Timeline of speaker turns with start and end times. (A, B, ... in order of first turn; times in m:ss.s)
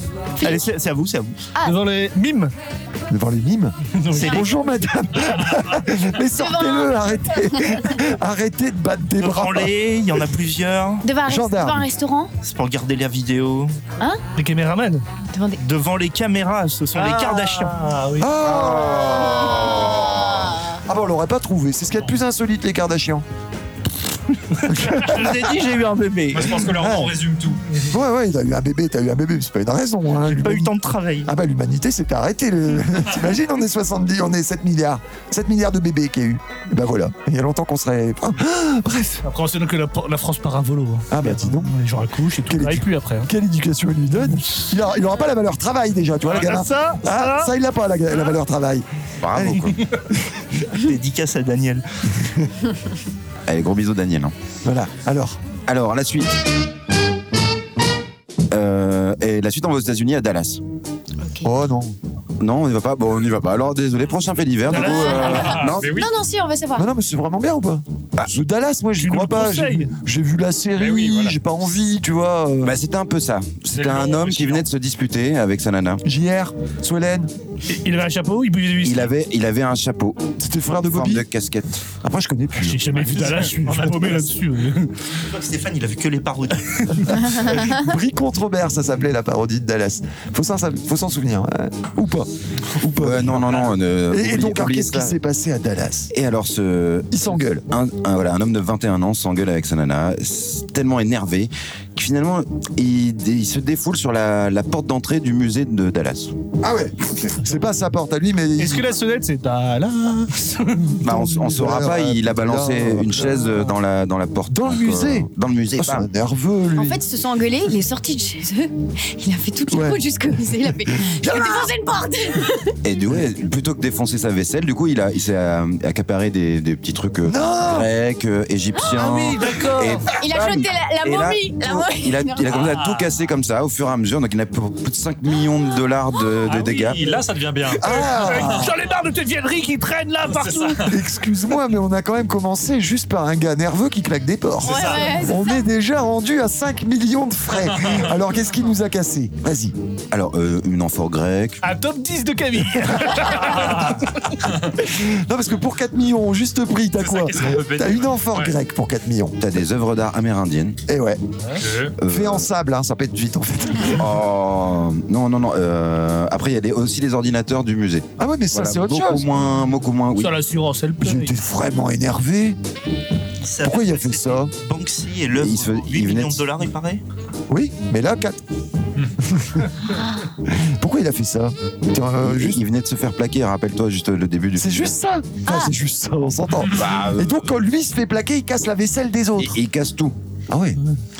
0:00.4-0:00.7 A
0:00.4-0:01.3 B
0:01.6-0:02.5 C
0:03.1-0:09.7 D
0:03.9-0:04.4 C
0:06.4-0:07.0 A
0:09.2-0:11.0 B
0:11.0-0:12.3 A
0:11.2-0:11.9 D
0:12.4-0:13.7 B
0:14.4-0:15.0 C
0:15.3-0:15.6 A
0:15.6-0:17.8 B
0:16.9-0:18.3 C
0:18.2-0:19.9 D
0:20.3-0:20.6 A
0:20.8-0:23.2 D
0:24.6-0:25.3 C
0:24.7-0:25.5 D
0:25.0-0:26.6 B
0:26.3-0:27.6 E
0:26.7-0:27.1 D
0:27.9-0:30.7 D
0:30.3-0:31.2 B
0:30.4-0:30.7 C
0:31.2-0:39.2 D
0:39.2-0:43.3 C
0:41.1-0:41.7 D
0:42.5-0:50.4 D
0:44.3-0:44.7 C
0:46.2-0:47.5 C
0:49.2-0:49.8 F
0:50.7-0:51.8 B
0:53.5-0:54.3 F
0:54.6-0:55.4 D
0:55.6-0:56.4 F
0:58.5-1:00.6 F
1:01.2-1:01.5 A
1:01.4-1:02.0 D
1:02.4-1:05.9 F
1:04.7-1:05.5 C
1:04.7-1:06.8 A
1:05.3-1:06.1 E
1:06.8-1:12.7 D
1:09.0-1:09.9 C
1:10.8-1:11.3 E
1:12.6-1:16.0 F
1:13.7-1:14.7 E
1:16.0-1:17.3 D
1:17.7-1:19.1 C
1:18.8-1:20.2 F
1:20.4-1:21.2 D
1:20.9-1:21.8 F
1:22.0-1:23.0 D
1:22.6-1:24.9 C
1:22.9-1:24.3 E
1:25.3-1:27.2 B
1:27.2-1:36.1 D
1:33.0-1:35.1 F
1:36.1-1:37.1 F
1:37.1-1:37.6 D
1:37.7-1:46.3 F
1:46.6-1:48.9 D
1:48.6-1:50.9 C
1:51.0-1:53.7 D
1:51.0-1:56.1 F
1:54.5-1:57.0 D
1:56.7-2:02.8 A
1:59.7-2:00.0 D
2:00.8-2:01.7 D
2:02.8-2:17.0 F
2:07.2-2:07.9 D
2:08.9-2:10.0 C
2:10.2-2:12.4 A
2:12.5-2:13.1 E
2:16.4-2:18.7 E
2:17.8-2:18.7 D
2:17.8-2:20.9 C
2:20.3-2:20.9 E
2:20.9-2:29.7 D
2:24.6-2:25.6 A
2:24.7-2:25.1 E
2:27.7-2:28.0 E
2:30.1-2:31.6 F
2:31.6-2:33.9 C
2:33.2-2:34.7 E
2:34.8-2:39.4 D
2:37.0-2:38.5 E
2:39.4-2:40.8 F
2:40.9-2:41.2 D
2:41.6-2:42.0 E
2:42.0-2:42.4 F
2:42.0-2:44.2 D
2:43.9-2:50.4 F
2:48.2-2:49.2 D
2:50.1-2:51.3 C
2:51.0-2:52.6 D
2:53.4-2:57.0 B
2:53.6-2:54.5 D
2:55.3-2:56.4 F
2:57.5-2:58.4 D
2:59.2-2:59.7 D
3:00.4-3:02.6 D
3:02.2-3:04.9 F
3:04.6-3:09.6 D
3:05.4-3:05.7 A
3:06.7-3:07.4 F
3:09.4-3:10.1 F
3:10.5-3:10.8 D